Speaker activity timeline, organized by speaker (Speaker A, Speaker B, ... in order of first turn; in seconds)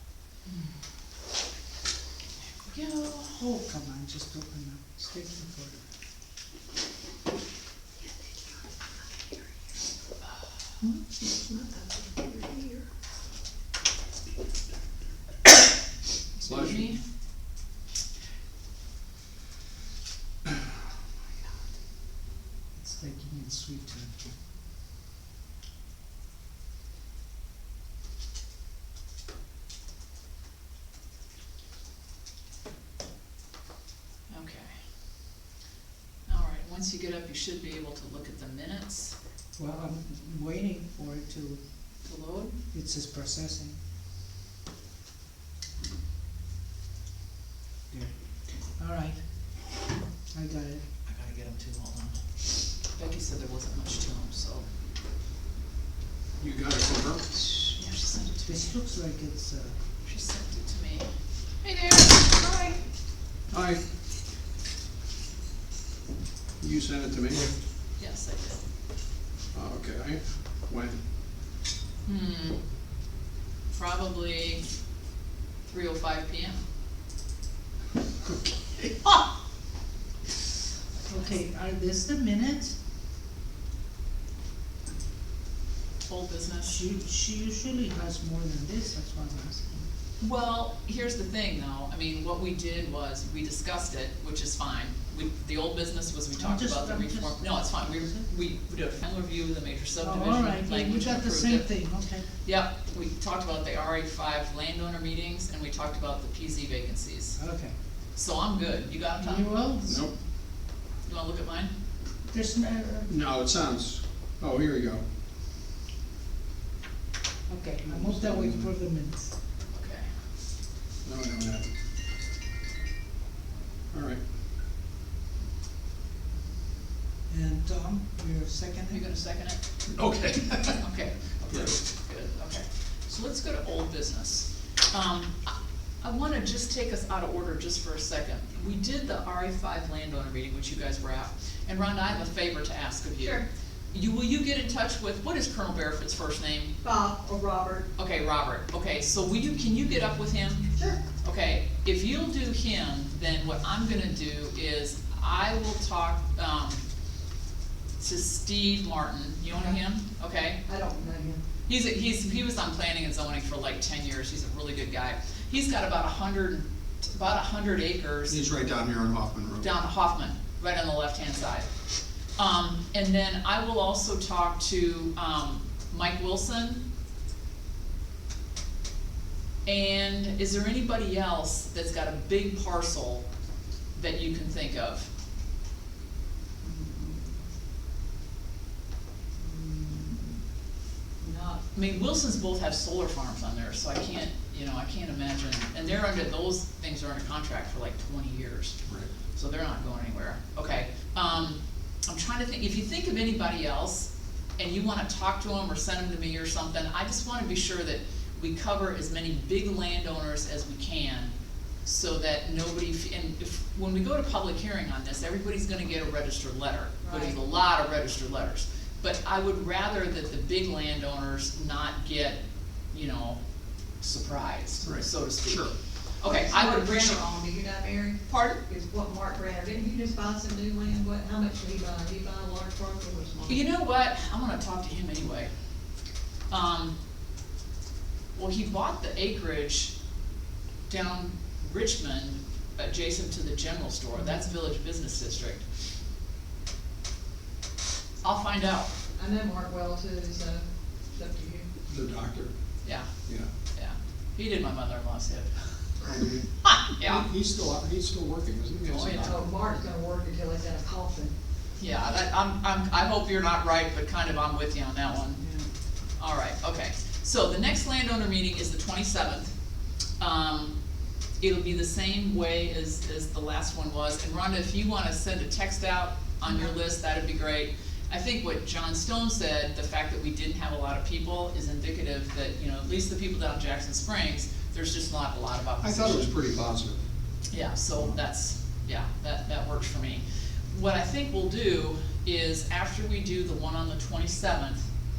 Speaker A: 0.5-0.7, 3.4-5.8, 22.7-24.2, 39.5-41.6, 42.7-43.8, 48.6-49.5, 50.3-50.8, 58.5-59.8, 81.1-82.8, 86.7-89.8, 96.4-98.2, 100.0-102.2, 107.4-107.7, 109.2-110.1, 112.3-113.1, 117.5-119.3, 127.3-129.1
Speaker B: 2.6-3.4, 16.4-17.0, 34.3-34.7, 36.3-39.2, 42.0-42.6, 51.0-54.7, 57.5-58.7, 60.0-61.1, 68.0-68.6, 72.0-72.6, 73.7-74.6, 75.7-76.6, 80.9-81.3, 86.1-86.8, 90.2-101.8, 102.4-107.4, 108.1-109.5, 111.0-111.7, 119.7-120.1, 128.9-129.6, 130.7-146.7, 148.0-150.7, 151.2-156.8, 158.0-160.6, 161.7-168.4, 169.6-171.7, 172.4-176.8, 179.7-183.2, 183.9-185.1, 191.7-198.8, 199.3-211.3, 211.8-222.4, 222.9-223.4, 224.0-227.2, 228.3-228.6, 233.5-235.5, 236.5-236.9, 238.3-239.9, 240.9-245.6, 248.2-248.9, 252.8-253.1, 253.7-255.9, 256.6-257.2, 258.9-259.4, 261.8-265.4, 266.2-269.5, 270.2-270.8, 271.4-286.3, 287.5-294.9
Speaker C: 10.8-12.8, 61.6-62.0, 143.2-143.4, 146.8-147.9, 150.8-151.0, 160.7-161.4, 186.6-187.3, 189.4-190.4, 191.2-191.6, 217.0-217.4, 226.2-233.6, 244.2-244.4, 249.2-251.7, 259.2-261.4
Speaker D: 16.4-16.9, 56.4-57.3, 63.5-63.8, 66.6-67.5, 69.5-71.0, 109.8-110.1, 113.1-115.0, 117.8-118.7, 121.0-121.7, 123.9-124.2, 129.9-130.8, 131.5-131.8, 168.3-169.7, 224.8-225.7, 251.9-253.5, 256.0-259.4, 285.8-287.0